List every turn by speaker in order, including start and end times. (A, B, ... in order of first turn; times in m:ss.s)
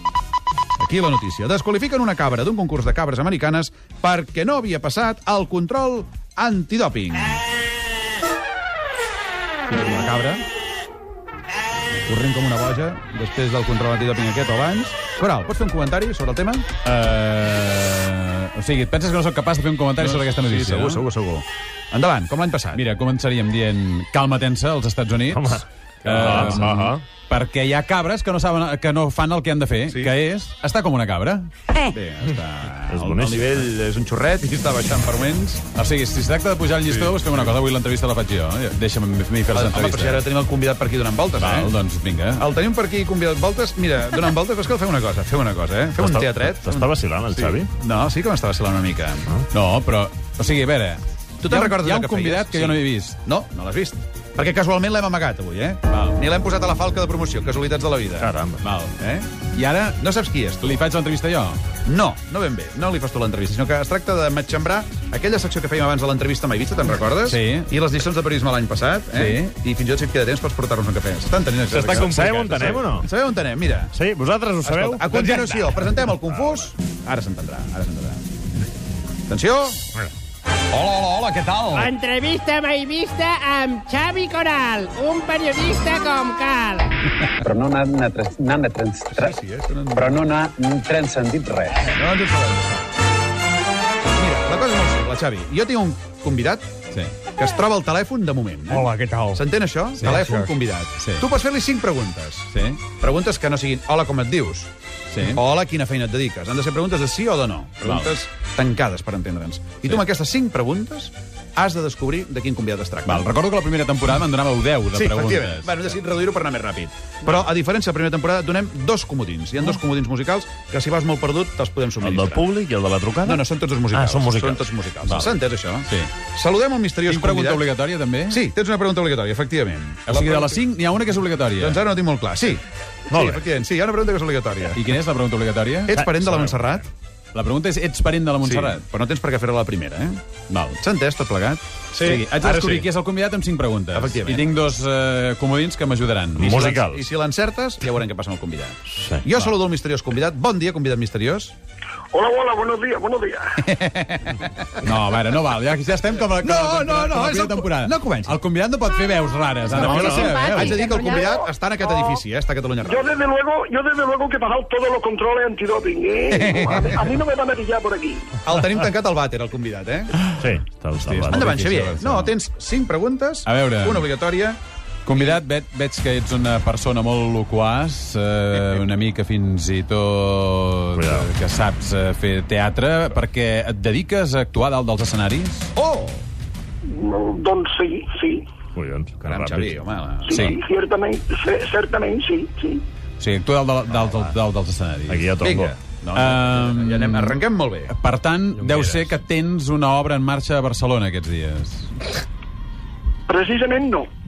0:00.8-0:07.4 A
0:09.7-0:10.4 A
0:12.0-0:16.6 A
0:16.8-0:21.0 B
0:20.0-0:22.8 A
0:22.7-0:31.5 B
0:25.3-0:27.0 C
0:26.1-0:26.7 A
0:31.9-0:35.6 A
0:32.9-0:33.7 C
0:35.7-0:40.2 B
0:36.8-0:37.2 A
0:39.5-0:41.7 A
0:41.4-0:42.4 B
0:42.4-0:49.3 A
0:46.0-0:47.7 C
0:49.5-0:53.2 B
0:51.4-0:58.3 A
0:55.9-0:56.2 B
0:58.2-0:58.6 C
0:58.6-0:58.9 B
0:58.9-0:59.3 A
0:59.5-1:00.0 B
0:59.9-1:00.8 A
1:00.6-1:01.6 B
1:01.8-1:13.9 A
1:07.2-1:07.7 B
1:09.1-1:09.5 B
1:11.7-1:13.0 B
1:11.7-1:13.1 C
1:13.9-1:15.8 C
1:14.6-1:18.2 A
1:19.3-1:19.9 A
1:20.7-1:21.9 A
1:21.7-1:26.9 D
1:27.4-1:29.3 E
1:29.1-1:30.2 A
1:29.9-1:31.9 E
1:31.9-1:32.8 A
1:34.1-1:36.7 A
1:37.3-1:44.7 A
1:38.7-1:39.4 E
1:40.0-1:40.5 B
1:42.5-1:42.8 B
1:45.1-1:45.4 B
1:45.2-1:53.3 A
1:47.8-1:48.1 B
1:53.0-1:55.9 B
1:54.9-2:02.5 A
2:02.0-2:04.7 C
2:03.2-2:07.6 A
2:05.8-2:06.1 B
2:07.1-2:08.4 B
2:08.3-2:10.6 A
2:10.0-2:11.8 B
2:11.6-2:14.8 A
2:13.1-2:13.4 C
2:14.8-2:16.0 B
2:15.9-2:16.8 A
2:16.0-2:16.5 C
2:17.3-2:18.8 B
2:18.4-2:20.2 A
2:20.5-2:20.8 B
2:20.8-2:22.8 A
2:22.0-2:26.6 B
2:23.9-2:24.5 A
2:26.4-2:27.0 C
2:26.4-2:31.5 A
2:29.0-2:29.2 C
2:32.1-2:33.6 F
2:33.6-2:34.6 A
2:34.8-2:40.9 B
2:36.4-2:38.4 A
2:39.7-2:43.2 A
2:39.7-2:40.3 C
2:41.8-2:42.2 F
2:42.8-2:48.3 F
2:46.3-2:47.0 A
2:48.4-2:50.2 A
2:50.4-2:51.5 C
2:51.0-2:52.3 B
2:51.3-2:54.6 A
2:53.4-2:54.1 B
2:55.0-3:05.7 B
3:01.0-3:01.3 C
3:05.8-3:06.2 A
3:06.8-3:08.4 F
3:08.7-3:09.8 C
3:09.2-3:10.5 A
3:10.2-3:12.8 F
3:10.3-3:10.6 B
3:13.2-3:15.4 B
3:15.1-3:15.7 C
3:15.4-3:17.9 A
3:16.1-3:22.1 B
3:18.6-3:19.2 C
3:23.3-3:24.1 F